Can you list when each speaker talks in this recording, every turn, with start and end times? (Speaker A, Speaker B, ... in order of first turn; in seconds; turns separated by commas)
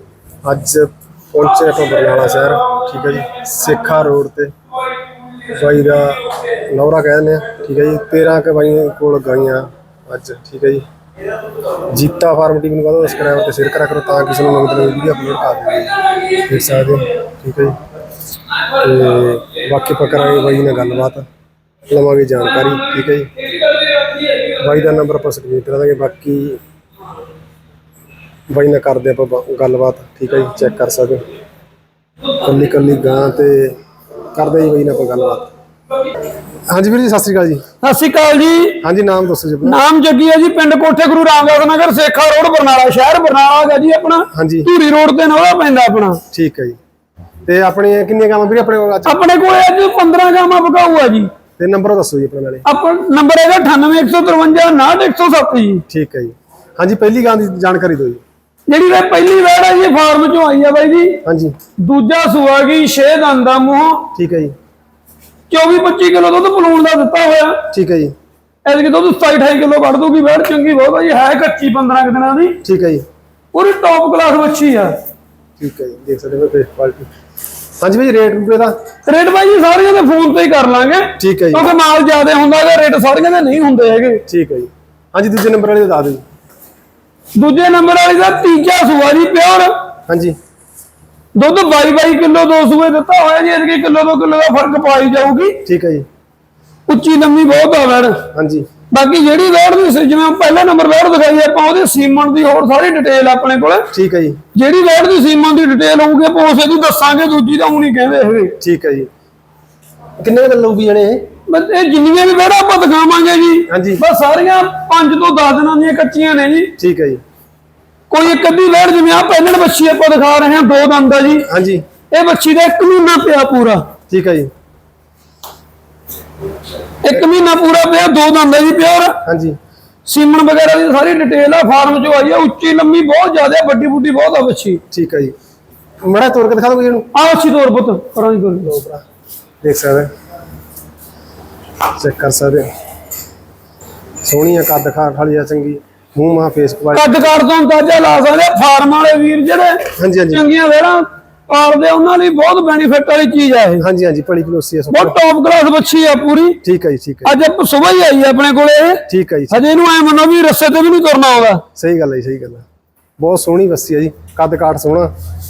Speaker A: 0.4-4.5, Speaker A: 5.5-10.8, Speaker A: 11.9-17.8, Speaker A: 18.7-21.3, Speaker A: 21.9-23.3, Speaker A: 24.5-26.6, Speaker A: 28.5-31.2, Speaker A: 32.4-33.8, Speaker A: 34.3-35.5, Speaker A: 36.7-37.6, Speaker B: 37.8-38.8, Speaker A: 38.8-39.8, Speaker B: 39.6-46.2, Speaker A: 44.3-44.7, Speaker A: 46.3-46.8, Speaker A: 47.5-49.2, Speaker B: 49.0-51.3, Speaker A: 51.6-52.7, Speaker B: 52.6-55.9, Speaker A: 55.9-58.2, Speaker B: 58.7-61.2, Speaker A: 61.2-61.5, Speaker B: 61.8-64.1, Speaker A: 64.2-64.5, Speaker B: 65.5-67.7, Speaker A: 67.7-68.1, Speaker B: 68.7-72.6, Speaker A: 72.6-73.1, Speaker B: 73.5-75.0, Speaker A: 75.6-77.1, Speaker A: 77.8-78.8, Speaker B: 79.0-84.2, Speaker A: 81.2-81.7, Speaker A: 84.3-86.2, Speaker B: 87.3-89.9, Speaker A: 90.1-90.4, Speaker B: 91.3-95.6, Speaker A: 95.7-96.1, Speaker B: 96.9-98.3, Speaker A: 98.3-98.7, Speaker B: 98.9-103.9, Speaker A: 103.9-104.4, Speaker B: 104.5-108.6, Speaker A: 108.6-109.1, Speaker A: 110.2-111.3, Speaker B: 111.5-116.7, Speaker A: 113.7-114.0, Speaker A: 116.8-117.2, Speaker B: 118.1-121.5, Speaker A: 121.4-121.8, Speaker B: 122.1-123.9, Speaker A: 124.1-124.5, Speaker B: 127.0-129.2, Speaker A: 129.2-129.6, Speaker B: 130.1-134.8, Speaker A: 134.9-135.3, Speaker A: 136.0-137.1, Speaker B: 137.1-138.7, Speaker A: 138.6-139.0, Speaker A: 139.6-140.1, Speaker A: 141.9-142.7, Speaker A: 144.2-147.3, Speaker B: 146.9-153.8, Speaker A: 150.0-150.4, Speaker A: 153.8-155.2, Speaker B: 154.9-156.6, Speaker A: 156.6-157.3, Speaker B: 157.2-161.6, Speaker A: 159.1-159.6, Speaker A: 161.8-162.6, Speaker A: 163.2-165.1